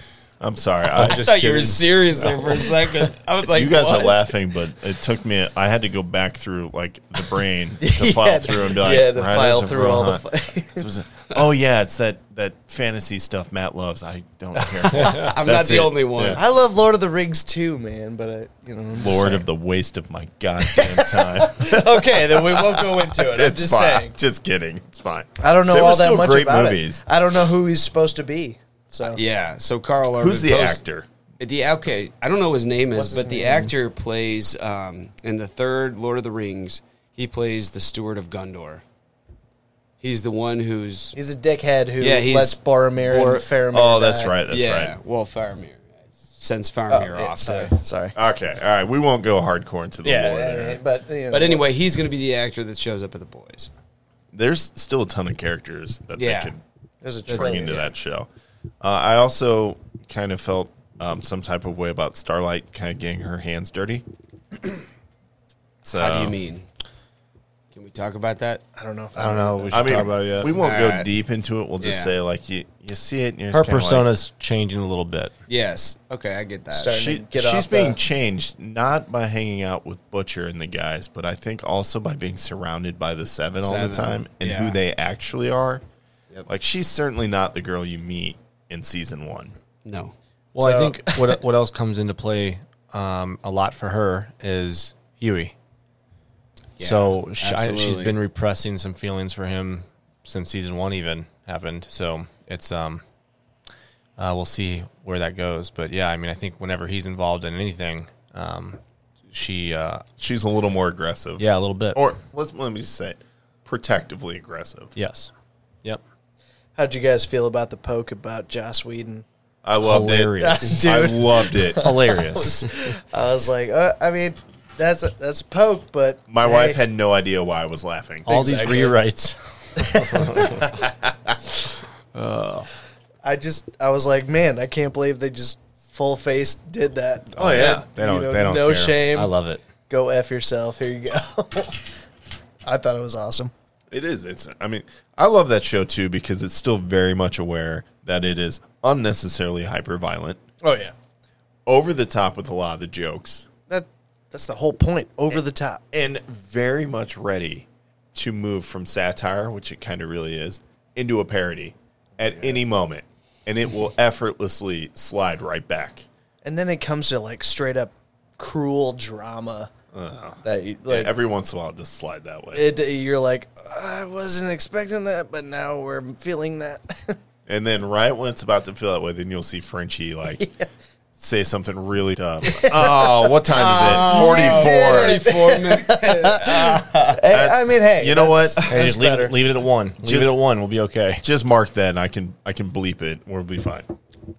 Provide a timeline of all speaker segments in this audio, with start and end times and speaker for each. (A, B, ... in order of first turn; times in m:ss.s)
0:00.4-0:01.4 A
0:01.0-0:02.6 B
0:01.0-0:04.3 C
0:03.4-0:16.4 A
0:07.8-0:10.9 D
0:14.8-0:15.3 B
0:15.0-0:16.4 C
0:16.4-0:19.4 D
0:19.0-0:27.0 A
0:20.6-0:24.2 D
0:25.4-0:29.2 D
0:29.0-0:30.8 C
0:30.2-0:31.1 A
0:31.4-0:38.8 C
0:32.9-0:33.7 D
0:40.0-0:41.2 C
0:41.2-0:44.4 D
0:42.0-0:43.5 C
0:43.7-0:45.0 A
0:44.5-0:47.7 C
0:46.9-0:48.2 D
0:48.2-0:50.8 A
0:50.0-0:51.6 D
0:51.3-0:53.7 C
0:54.3-0:56.6 A
0:56.2-0:56.5 C
0:57.0-0:57.9 D
0:57.3-0:58.3 A
0:57.3-0:57.7 C
0:58.8-1:04.1 A
1:05.8-1:06.4 A
1:06.0-1:06.7 C
1:07.7-1:08.6 C
1:08.8-1:10.1 D
1:09.2-1:10.6 B
1:09.7-1:14.1 A
1:10.6-1:11.1 C
1:11.8-1:12.1 C
1:13.5-1:15.3 B
1:15.5-1:17.0 C
1:16.7-1:18.0 D
1:16.9-1:25.8 A
1:23.6-1:24.8 C
1:26.5-1:29.6 A
1:29.8-1:30.1 C
1:30.6-1:35.5 B
1:30.6-1:31.3 D
1:36.8-1:38.2 C
1:36.8-1:43.0 B
1:44.2-1:48.8 B
1:49.3-1:50.0 B
1:50.2-1:54.9 A
1:51.4-1:52.0 B
1:55.0-1:55.3 B
1:56.8-1:59.2 D
1:59.6-2:02.0 A
1:59.8-2:00.8 B
2:00.4-2:06.8 D
2:01.8-2:02.7 B
2:06.3-2:08.4 A
2:08.3-2:10.7 B
2:08.3-2:09.0 D
2:09.8-2:10.6 D
2:10.8-2:11.1 A
2:12.1-2:12.7 B
2:13.2-2:19.3 D
2:17.4-2:19.6 B
2:17.4-2:17.8 A
2:19.9-2:21.8 D
2:22.6-2:23.5 D
2:23.9-2:30.4 A
2:30.6-2:30.9 D
2:31.7-2:33.5 A
2:33.7-2:35.8 D
2:35.9-2:46.0 A
2:46.4-2:49.7 D
2:49.9-2:52.7 A
2:50.4-2:51.1 D
2:52.5-2:57.2 D
2:57.5-3:00.5 A
3:00.4-3:00.6 D
3:01.2-3:05.2 A
3:02.4-3:03.2 D
3:03.5-3:07.2 C
3:03.8-3:09.4 D
3:07.3-3:08.7 A
3:08.7-3:11.2 B
3:10.0-3:10.4 A
3:11.2-3:13.9 A